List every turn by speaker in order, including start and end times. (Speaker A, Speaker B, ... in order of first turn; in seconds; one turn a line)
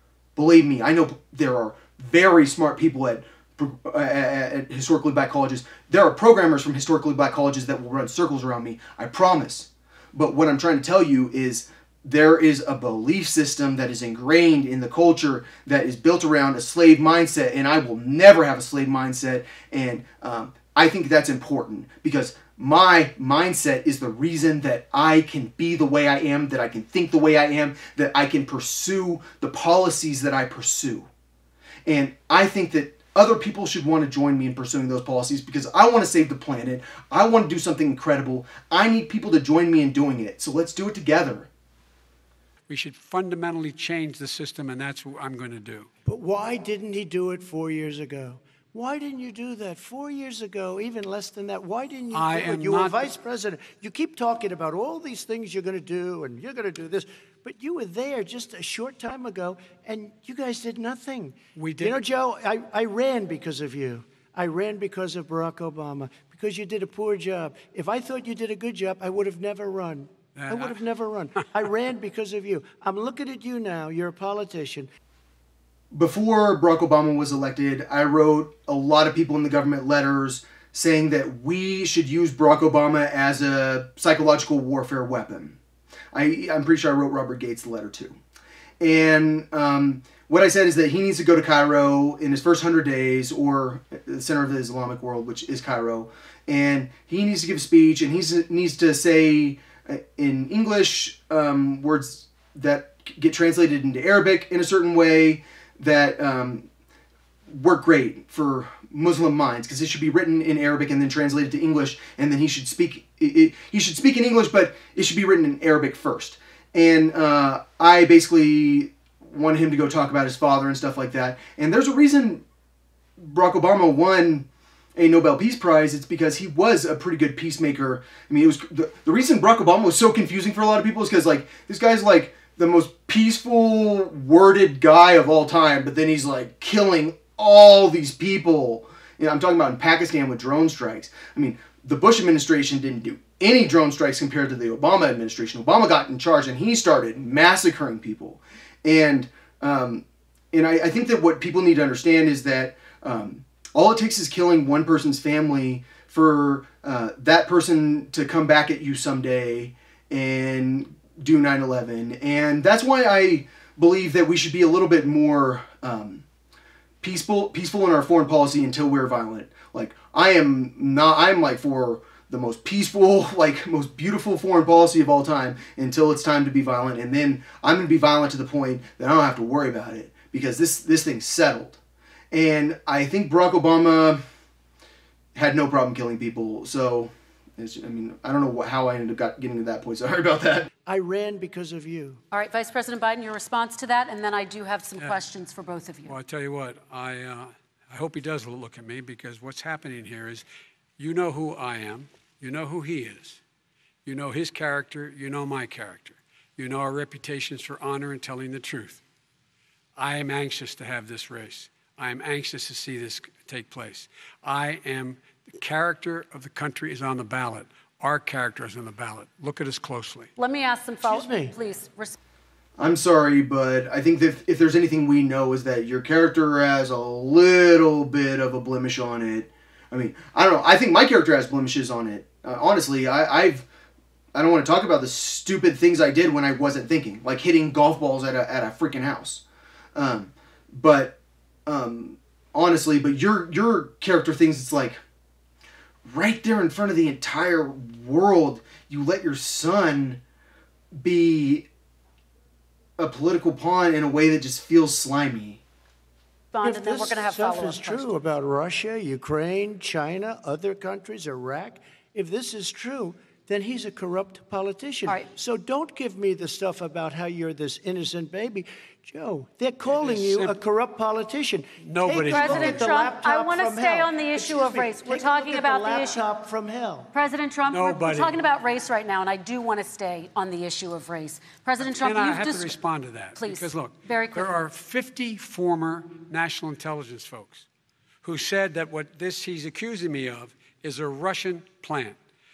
Speaker A: 0.3-31.1
Speaker A: 31.9-41.5
Speaker B: 42.7-45.9
Speaker C: 46.0-74.9
Speaker B: 52.1-53.1
Speaker B: 61.5-62.0
Speaker B: 70.3-70.8
Speaker A: 75.9-85.6
Speaker A: 86.1-88.2
Speaker A: 88.8-106.7
Speaker A: 107.5-122.4
Speaker A: 123.2-166.2
Speaker A: 167.0-181.8
Speaker A: 182.3-184.2
Speaker A: 185.3-190.7
Speaker C: 190.8-192.2
Speaker D: 192.3-196.1
Speaker B: 196.1-200.4
Speaker B: 201.0-203.4
Speaker B: 204.0-209.0
Speaker B: 210.0-220.3
Speaker D: 220.4-222.2
Speaker C: 221.0-221.5
Speaker A: 222.8-233.7
Speaker A: 234.3-239.4
Speaker A: 239.9-245.0
Speaker A: 246.1-250.2
Speaker A: 250.9-251.7
Speaker A: 253.0-255.6
Speaker D: 256.5-258.1
Speaker C: 256.6-277.1
Speaker B: 269.9-270.6
Speaker B: 271.8-272.8
Speaker D: 272.3-276.2
Speaker D: 277.1-282.8
Speaker B: 277.7-278.3
Speaker B: 281.8-287.6
Speaker D: 283.4-284.5
Speaker B: 288.2-292.1